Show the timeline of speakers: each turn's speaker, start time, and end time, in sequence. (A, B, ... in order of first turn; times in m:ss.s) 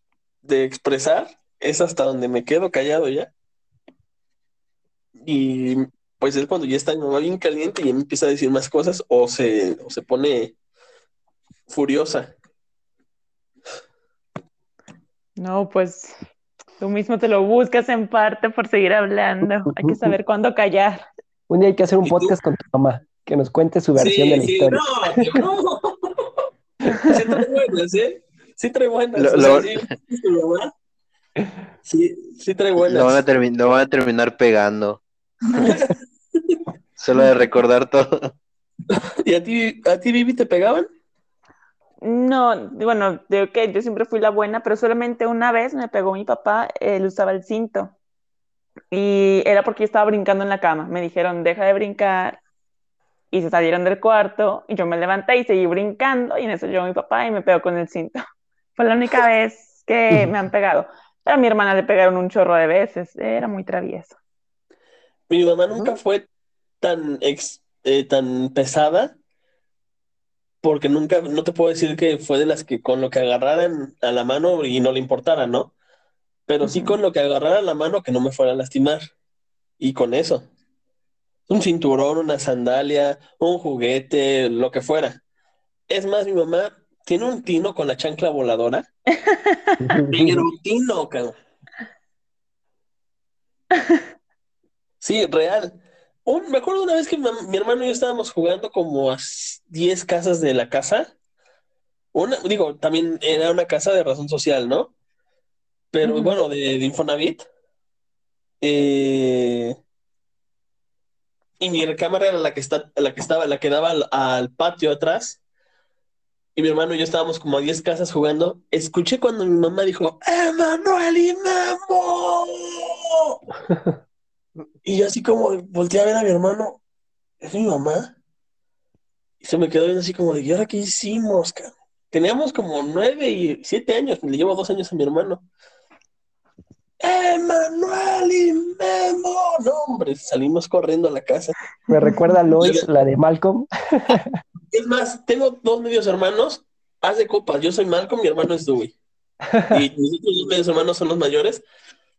0:00.4-0:03.3 A
0:05.2-0:10.5 A
0:11.7-0:12.3 A
0:15.4-0:16.2 B
0:16.8-0:21.1 B
0:19.8-0:20.1 C
0:21.5-0:25.3 C
0:22.0-0:22.3 A
0:23.9-0:26.4 A
0:27.0-0:30.7 A
0:29.1-0:29.8 D
0:31.8-0:33.2 A
0:32.8-0:35.0 D
0:35.5-0:36.6 A
0:37.0-0:38.3 D
0:38.9-0:40.9 A
0:42.0-0:47.9 B
0:48.9-0:52.4 B
0:53.3-0:58.2 B
0:58.8-1:04.2 B
1:05.3-1:06.2 A
1:06.8-1:09.2 A
1:10.6-1:15.7 A
1:16.5-1:19.0 A
1:16.6-1:16.9 B
1:19.8-1:20.5 A
1:21.5-1:25.2 A
1:25.9-1:28.8 A
1:29.2-1:30.0 B
1:29.8-1:30.4 C
1:30.1-1:31.3 A
1:35.0-1:41.1 A
1:42.1-1:44.9 A
1:45.9-1:47.4 A
1:46.0-1:46.4 B
1:48.6-1:49.8 A
1:51.6-1:55.4 A
1:56.6-2:03.4 A
2:04.8-2:06.8 A
2:07.4-2:08.1 A
2:09.4-2:15.4 A
2:17.0-2:21.5 A
2:21.9-2:24.4 C
2:22.0-2:22.3 B
2:22.6-2:22.9 A
2:24.7-2:28.9 A
2:29.5-2:29.8 C
2:29.7-2:31.6 A